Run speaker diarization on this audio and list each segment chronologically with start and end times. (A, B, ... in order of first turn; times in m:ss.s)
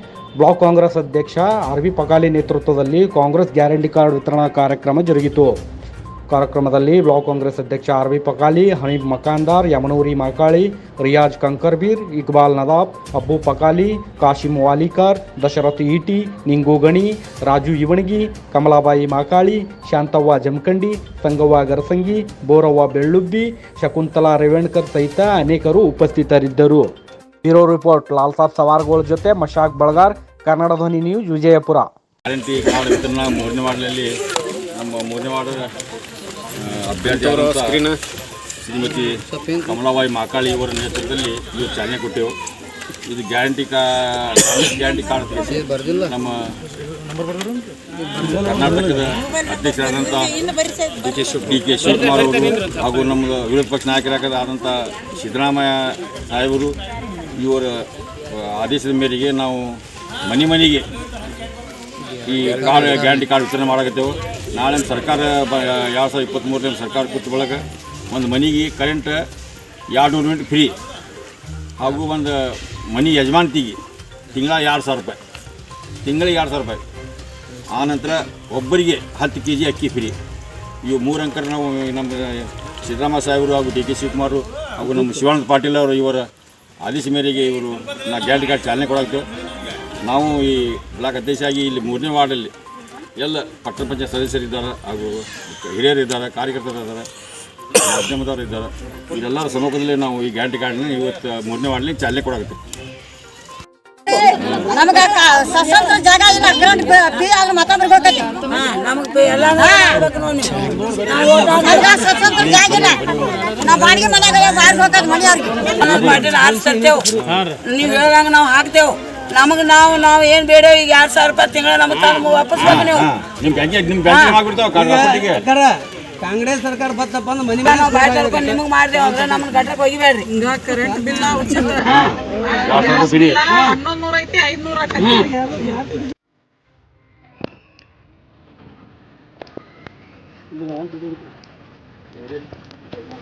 0:00.4-0:05.6 A
0:06.3-0:26.9 A
0:27.4-0:31.9 A
0:32.2-0:34.1 B
0:34.7-0:35.7 B
0:36.6-0:37.9 B
0:38.6-0:42.4 B
0:43.0-0:46.6 B
0:45.5-0:46.1 C
0:48.2-0:50.5 B
0:51.0-0:56.8 B
0:57.3-1:00.8 B
1:02.2-1:09.2 B
1:09.9-1:10.7 B
1:11.8-1:13.8 B
1:14.3-1:15.2 B
1:16.0-1:16.8 B
1:17.7-1:20.2 B
1:20.8-1:26.2 B
1:26.8-1:29.2 B
1:30.0-1:32.5 B
1:33.2-1:37.1 B
1:37.8-1:42.6 B
1:44.0-1:48.4 D
1:48.5-1:52.3 E
1:49.6-1:50.0 D
1:51.3-1:53.0 D
1:52.3-1:53.6 B
1:53.6-1:55.9 D
1:53.6-1:54.7 E
1:55.6-1:57.1 E
1:55.8-1:57.1 C
1:57.6-2:03.0 E
2:02.6-2:05.5 B
2:04.1-2:04.4 E
2:04.8-2:08.6 C
2:07.6-2:12.0 E
2:10.4-2:11.2 C
2:11.8-2:13.5 B
2:13.6-2:14.4 E